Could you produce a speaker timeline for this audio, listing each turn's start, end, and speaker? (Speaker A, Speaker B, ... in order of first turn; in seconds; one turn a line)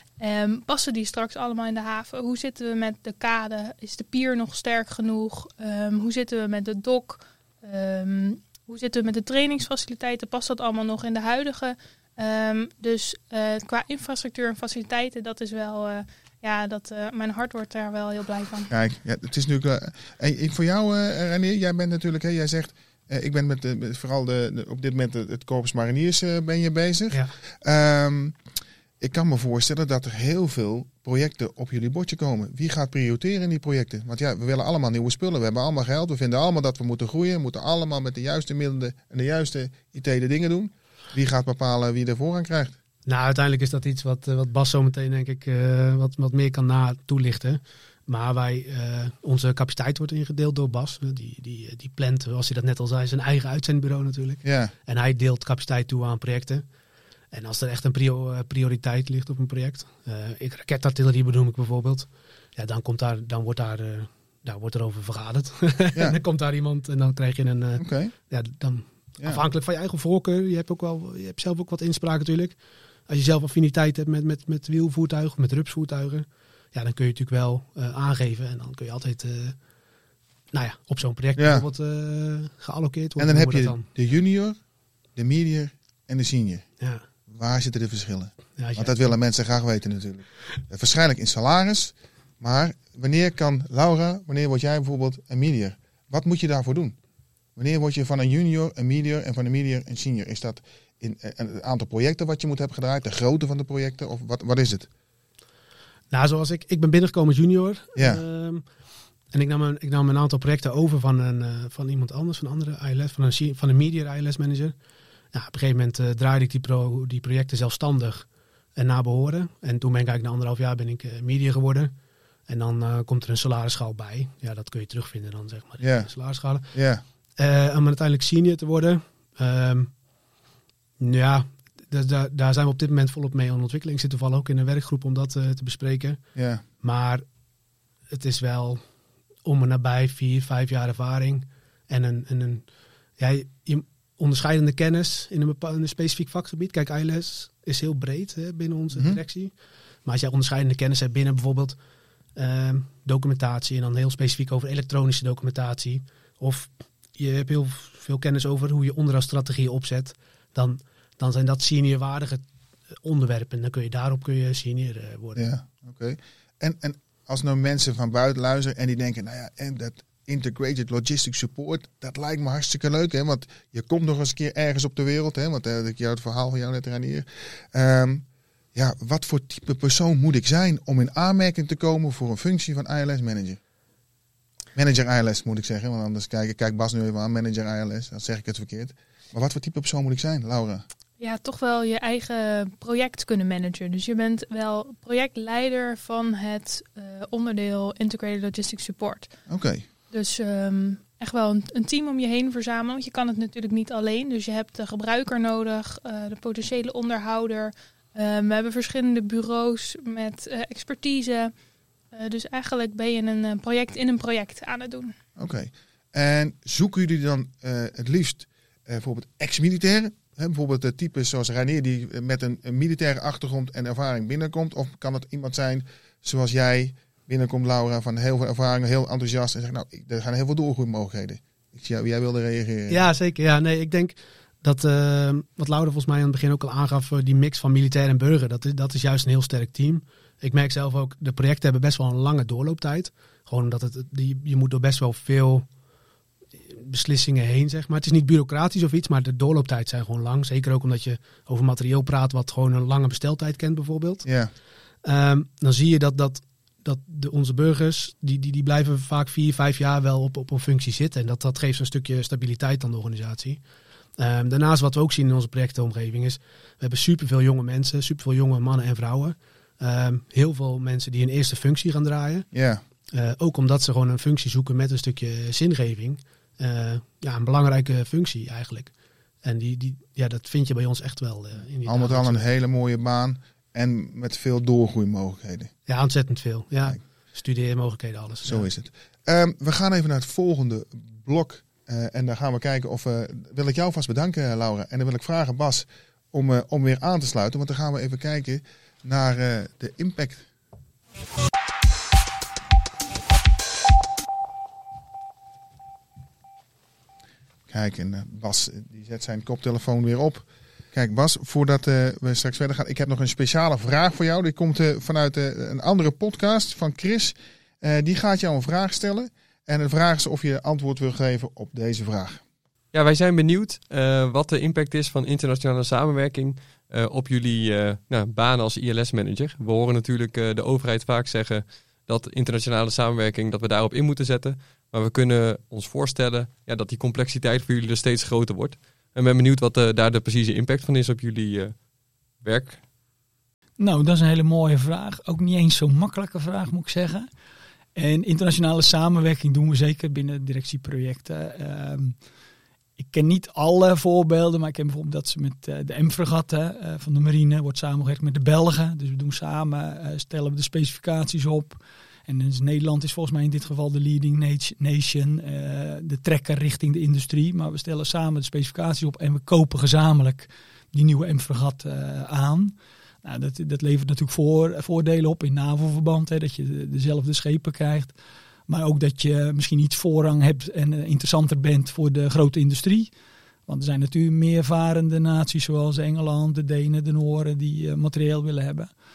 Speaker A: 0.2-18.7
Speaker B: 18.7-28.4
Speaker B: 29.0-42.8
Speaker C: 43.0-56.6
Speaker B: 54.4-54.7
Speaker C: 57.3-72.5
Speaker B: 67.8-68.1
Speaker C: 73.1-79.5
Speaker C: 80.5-83.9
Speaker B: 81.3-81.6
Speaker B: 83.2-84.6
Speaker B: 85.2-86.6
Speaker B: 87.3-97.0
Speaker C: 88.6-89.1
Speaker B: 97.5-104.9
Speaker C: 106.1-108.6
Speaker B: 108.0-108.2
Speaker C: 109.3-114.7
Speaker C: 115.3-121.9
Speaker C: 122.5-126.7
Speaker B: 125.8-126.1
Speaker B: 126.7-127.0
Speaker C: 127.4-129.9
Speaker C: 131.0-136.2
Speaker B: 136.3-136.6
Speaker C: 136.8-137.2
Speaker C: 138.1-138.8
Speaker C: 139.4-142.7
Speaker C: 143.2-149.5
Speaker B: 148.9-149.2
Speaker C: 150.0-151.8
Speaker C: 152.3-162.4
Speaker C: 163.0-165.5
Speaker B: 165.3-178.2
Speaker B: 178.7-183.6
Speaker B: 184.7-190.8
Speaker A: 191.2-199.3
Speaker B: 199.5-199.8
Speaker A: 200.1-211.5
Speaker A: 212.1-215.1
Speaker B: 215.4-233.1
Speaker C: 232.9-245.7
Speaker C: 246.7-254.3
Speaker B: 254.2-254.5
Speaker C: 255.0-263.6
Speaker C: 264.2-272.5
Speaker B: 272.5-272.8
Speaker C: 273.1-278.9
Speaker C: 279.4-282.4
Speaker B: 281.8-285.7
Speaker C: 285.9-288.7
Speaker B: 288.4-300.5
Speaker B: 307.7-322.4
Speaker D: 322.9-341.8
Speaker D: 342.4-342.8
Speaker E: 343.8-347.3
Speaker E: 347.9-352.1
Speaker E: 353.0-378.1
Speaker E: 378.7-383.1
Speaker E: 383.7-388.9